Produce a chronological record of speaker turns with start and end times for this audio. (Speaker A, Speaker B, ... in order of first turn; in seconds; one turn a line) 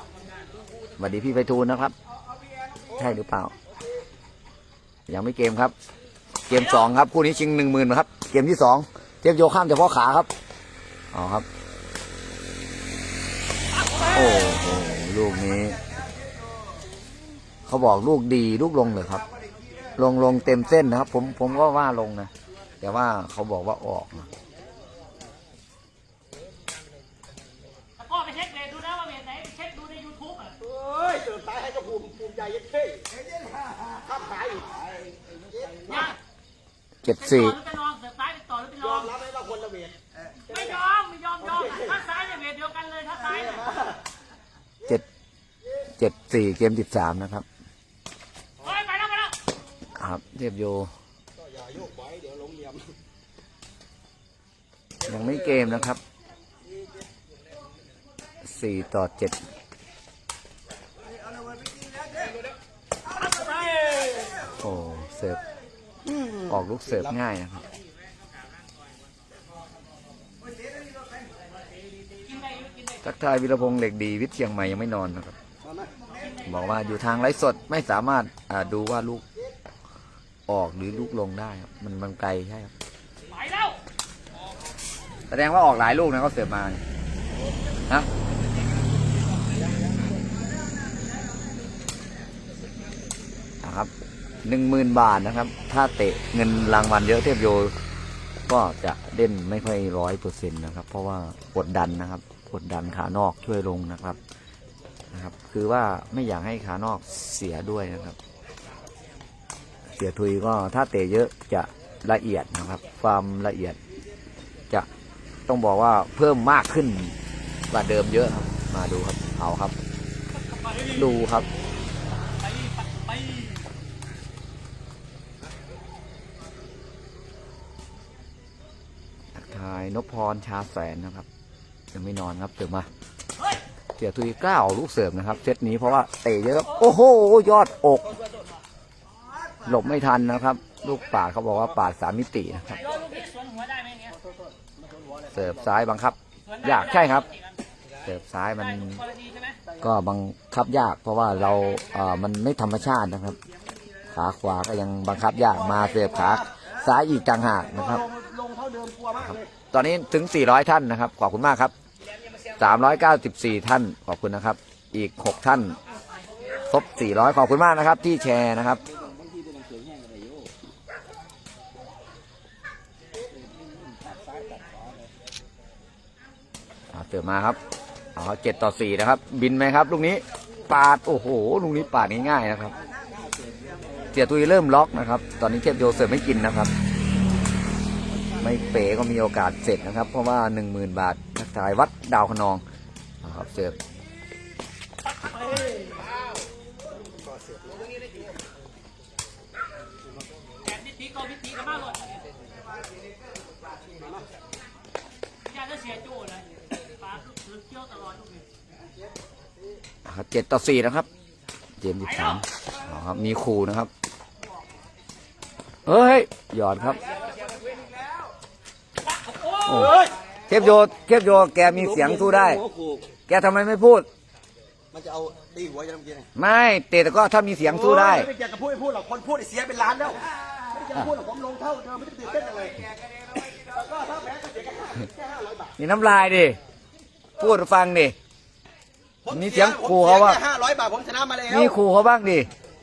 Speaker A: 1.0-1.9
Speaker A: 2.9-3.5
Speaker A: 5.1-5.7
Speaker A: 6.5-10.3
Speaker A: 11.1-11.5
Speaker A: 14.1-15.8
Speaker A: 17.7-19.2
Speaker A: 20.0-22.3
Speaker A: 22.8-24.3
Speaker B: 28.0-30.6
Speaker C: 30.6-33.1
Speaker C: 34.1-34.6
Speaker D: 34.9-35.7
Speaker B: 35.9-36.2
Speaker A: 37.0-37.6
Speaker B: 37.2-39.1
Speaker C: 39.1-39.9
Speaker B: 40.5-43.8
Speaker A: 46.0-47.5
Speaker B: 48.6-49.4
Speaker A: 50.0-50.9
Speaker C: 51.5-52.8
Speaker A: 55.0-56.0
Speaker A: 58.5-59.4
Speaker B: 63.3-64.2
Speaker A: 64.6-65.4
Speaker A: 66.5-67.6
Speaker B: 72.3-73.0
Speaker A: 73.0-75.3
Speaker A: 76.5-79.2
Speaker A: 80.5-82.7
Speaker B: 83.3-83.8
Speaker A: 85.3-86.8
Speaker A: 93.6-93.9
Speaker A: 94.4-97.7
Speaker A: 98.5-104.2
Speaker A: 105.1-108.2
Speaker A: 110.0-113.8
Speaker A: 115.5-117.2
Speaker A: 117.7-119.8
Speaker B: 120.5-121.0
Speaker A: 120.9-121.5
Speaker B: 122.4-123.6
Speaker A: 129.3-131.3
Speaker A: 131.9-132.9
Speaker A: 134.0-138.1
Speaker A: 139.7-142.8
Speaker B: 142.8-144.2
Speaker A: 145.3-147.3
Speaker B: 146.5-147.6
Speaker A: 148.1-149.0
Speaker B: 148.8-149.6
Speaker A: 149.8-153.4
Speaker A: 154.1-158.1
Speaker C: 158.1-159.4
Speaker A: 159.2-161.7
Speaker A: 162.6-165.8
Speaker A: 166.7-168.8
Speaker D: 168.8-170.5
Speaker D: 173.3-175.1
Speaker A: 176.9-177.6
Speaker A: 178.2-182.8
Speaker D: 183.0-184.1
Speaker A: 184.1-186.7
Speaker A: 188.4-192.6
Speaker A: 193.2-193.8
Speaker B: 195.1-195.8
Speaker B: 200.6-202.2
Speaker B: 205.4-208.5
Speaker A: 210.1-211.1
Speaker A: 211.8-213.9
Speaker A: 215.9-217.0
Speaker B: 219.0-220.1
Speaker A: 219.7-219.9
Speaker A: 220.5-222.6
Speaker D: 221.5-223.1
Speaker A: 223.3-224.1
Speaker C: 224.9-226.3
Speaker A: 226.4-228.3
Speaker C: 227.9-232.9
Speaker C: 233.5-235.7
Speaker A: 235.8-236.6
Speaker A: 237.4-238.2
Speaker C: 239.3-241.7
Speaker A: 239.3-240.4
Speaker A: 241.5-242.5